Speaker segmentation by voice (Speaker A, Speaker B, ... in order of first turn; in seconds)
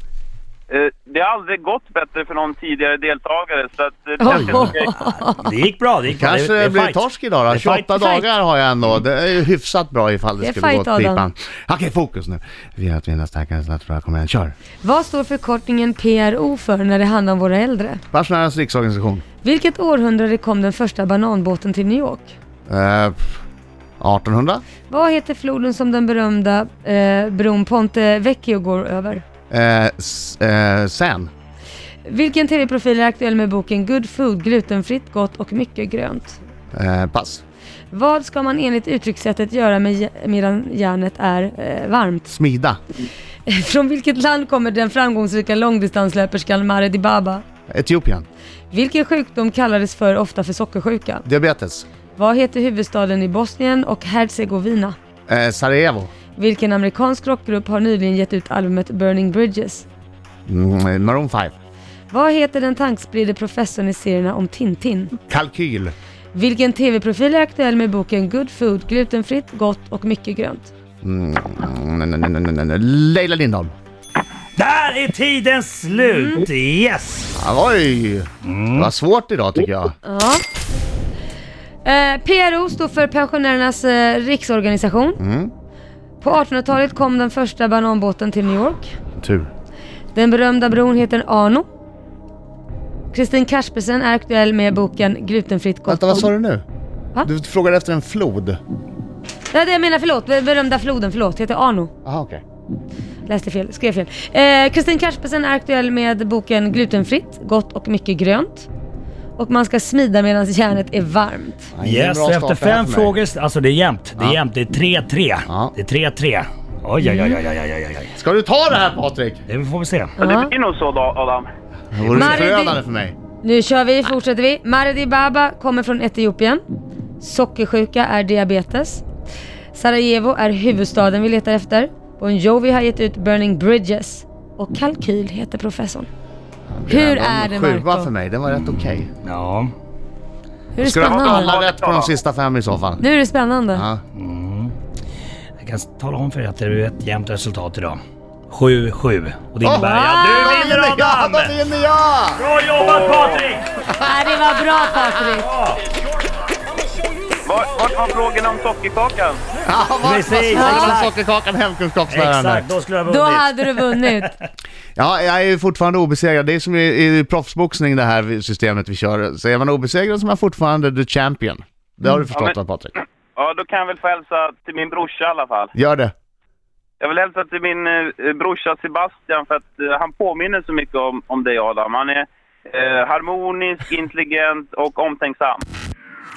Speaker A: 0.7-4.9, 120.2-121.5, 140.9-142.1, 152.8-153.5, 157.4-159.4, 172.3-175.7, 177.0-185.6
Speaker B: 4.2-5.5, 10.4-11.2, 14.8-18.0, 19.4-22.3, 24.9-29.2, 32.0-36.4, 37.9-42.3, 43.5-47.4, 48.7-51.2, 52.1-55.0, 56.4-59.8, 62.1-65.1, 66.3-70.7, 76.0-76.4, 80.0-80.4, 81.8-85.2, 86.2-88.9, 90.1-91.7, 93.1-96.3, 99.5-101.9, 103.2-108.7, 109.4-111.7, 117.0-117.4, 120.2-120.5, 122.1-122.8, 123.4-126.6, 127.2-129.0, 129.7-136.1, 136.9-138.1, 140.7-141.5, 143.0-143.8, 149.7-150.6, 154.0-155.5, 160.5-161.1, 163.1-164.3
Speaker C: 4.3-4.7, 6.2-14.5, 18.1-19.2, 22.7-23.4, 24.0-24.6, 29.5-31.3, 36.7-37.4, 42.3-42.8, 47.7-48.2, 51.2-51.9, 55.3-56.1, 60.5-61.5, 65.3-65.9, 71.0-73.7, 77.4-79.9, 85.2-85.5, 89.2-89.5, 95.9-96.6, 97.2-98.6, 102.0-102.4, 111.7-113.1, 115.5-115.7, 118.2-119.4, 121.9-123.1, 136.7-139.1, 140.8-143.0, 143.7-144.0, 149.6-152.4, 159.6-162.7, 164.9-172.9, 175.7-176.1
Speaker D: 5.4-8.1, 74.6-77.3, 78.4-78.9, 111.8-118.1, 119.5-120.1, 138.5-139.7, 144.1-144.7, 145.6-148.0, 148.5-151.5, 152.4-153.6, 155.3-155.8, 160.0-161.1, 162.1-164.2